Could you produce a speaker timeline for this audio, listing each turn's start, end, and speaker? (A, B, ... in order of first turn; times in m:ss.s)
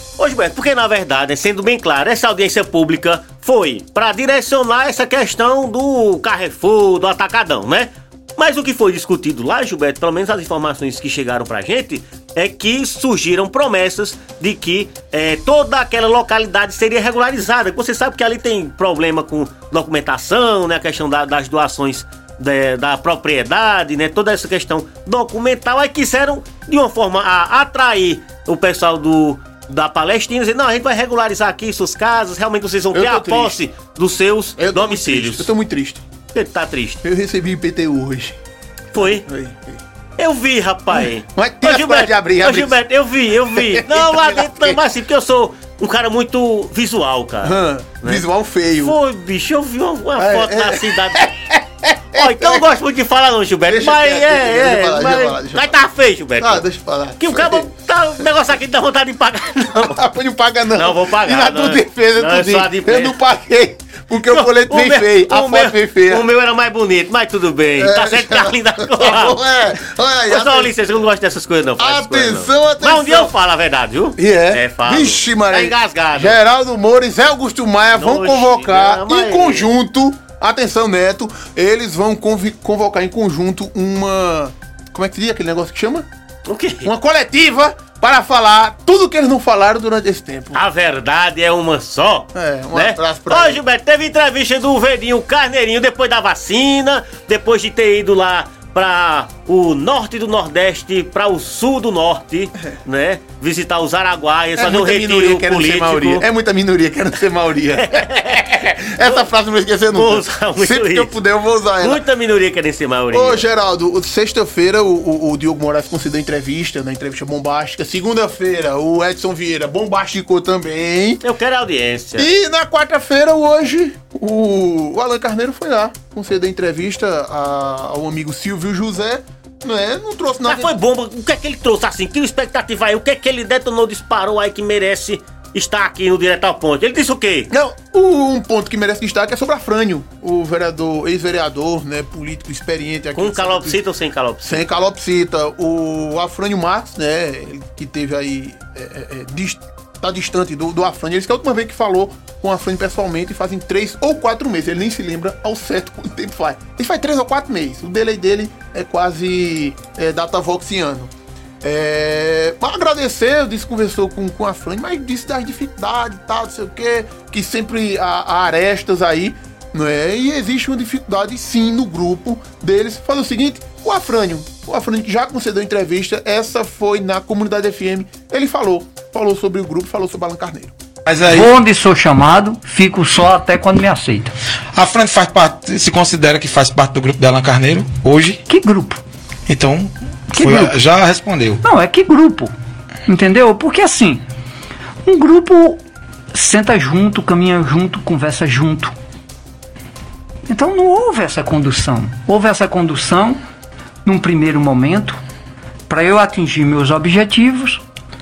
0:00.2-0:35.5 A
0:32.9-0:33.6 B
0:34.6-0:36.0 B
0:36.3-0:37.0 A
0:37.0-0:38.4 B
0:38.9-0:39.3 A
0:39.0-0:39.8 B
0:40.2-0:48.2 A
0:40.9-0:42.8 B
0:43.5-0:44.8 B
0:47.4-0:49.0 B
0:48.8-0:51.3 A
0:50.2-0:52.6 B
0:52.1-0:56.6 A
0:53.7-0:55.8 B
0:56.4-0:57.7 B
0:57.2-1:00.0 A
0:59.8-1:06.3 B
1:00.8-1:03.2 A
1:04.3-1:16.4 A
1:07.8-1:10.8 B
1:11.8-1:13.3 B
1:14.2-1:26.1 B
1:17.9-1:19.7 A
1:26.5-1:26.9 A
1:26.8-1:30.6 B
1:30.5-1:46.3 A
1:32.4-1:33.6 B
1:44.6-1:52.0 B
1:47.8-1:49.3 A
1:49.9-1:51.2 A
1:51.8-1:53.5 A
1:53.1-2:01.2 B
2:01.2-2:02.3 A
2:02.2-2:10.7 B
2:10.4-2:17.5 A
2:17.5-2:23.8 B
2:23.2-2:24.7 A
2:24.4-3:00.7 B
3:01.1-3:01.5 C
3:01.3-3:04.3 D
3:04.7-3:08.4 C
3:08.5-3:09.0 D
3:09.5-3:11.6 C
3:10.3-3:10.8 D
3:11.6-3:12.5 D
3:13.1-3:14.2 D
3:15.0-3:15.8 D
3:16.3-3:18.9 D
3:20.5-3:23.4 D
3:24.0-3:25.2 D
3:25.9-3:27.8 D